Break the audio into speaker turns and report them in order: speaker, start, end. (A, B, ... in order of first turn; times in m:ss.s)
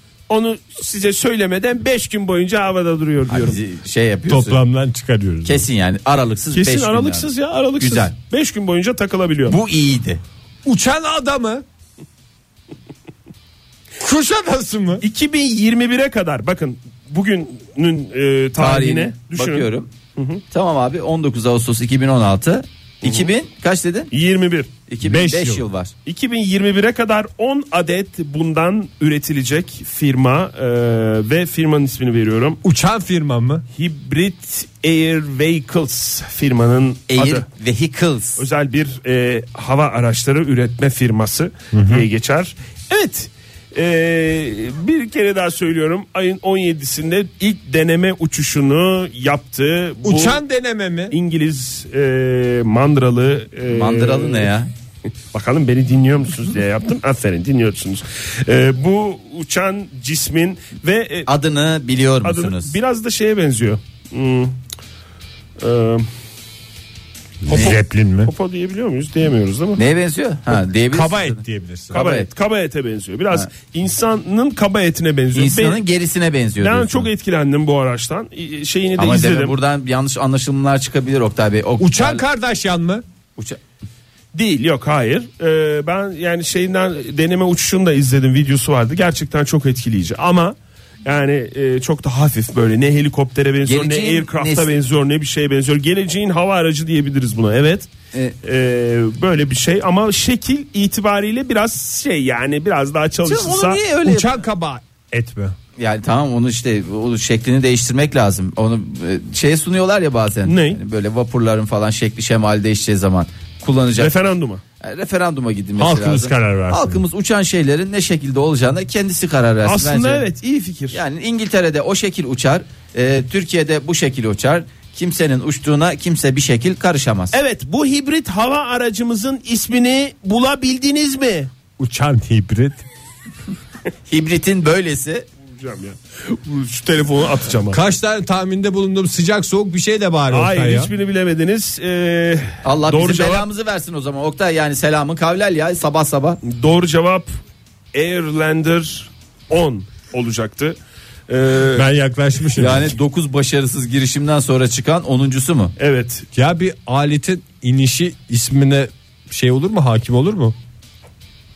0:00.3-0:03.6 A
0:03.3-0:04.6 B
0:04.3-0:05.6 C
0:05.4-0:08.1 B
0:06.5-0:09.6 A
0:09.5-0:10.2 B
0:10.6-0:11.6 C
0:14.0-0:15.0 C
0:15.0-0:20.4 A
0:18.6-0:19.9 B
0:20.5-0:24.1 B
0:24.1-0:24.7 A
0:24.9-0:25.9 B
0:25.0-0:25.6 C
0:26.1-0:32.6 A
0:32.6-0:33.6 C
0:33.8-0:37.4 A
0:37.1-0:38.4 B
0:38.4-0:50.4 A
0:41.7-0:42.1 C
0:50.0-0:51.1 C
0:51.1-0:54.5 A
0:53.7-0:54.7 B
0:55.3-1:01.3 A
1:01.3-1:02.7 B
1:02.2-1:04.6 A
1:05.6-1:06.1 A
1:07.4-1:08.3 C
1:07.5-1:09.8 A
1:09.8-1:12.3 B
1:10.9-1:12.0 C
1:11.9-1:15.8 A
1:15.3-1:17.1 B
1:16.6-1:19.6 A
1:19.0-1:22.2 B
1:21.8-1:23.0 C
1:24.3-1:37.9 A
1:33.6-1:34.7 B
1:38.4-1:43.9 A
1:43.2-1:44.4 B
1:44.0-1:45.6 C
1:45.8-1:54.1 B
1:50.4-1:50.8 A
1:54.0-1:54.6 A
1:54.8-2:00.2 B
1:55.8-1:57.0 C
1:59.6-2:01.0 A
2:00.9-2:07.4 B
2:07.3-2:11.5 A
2:11.8-2:12.8 C
2:14.1-2:15.3 B
2:15.5-2:17.8 A
2:17.7-2:20.9 C
2:20.3-2:23.5 A
2:22.6-2:26.4 B
2:26.4-2:27.3 A
2:27.9-2:30.8 A
2:31.3-2:31.9 A
2:31.7-2:33.0 C
2:32.6-2:35.7 B
2:35.8-2:36.2 A
2:36.3-2:40.6 C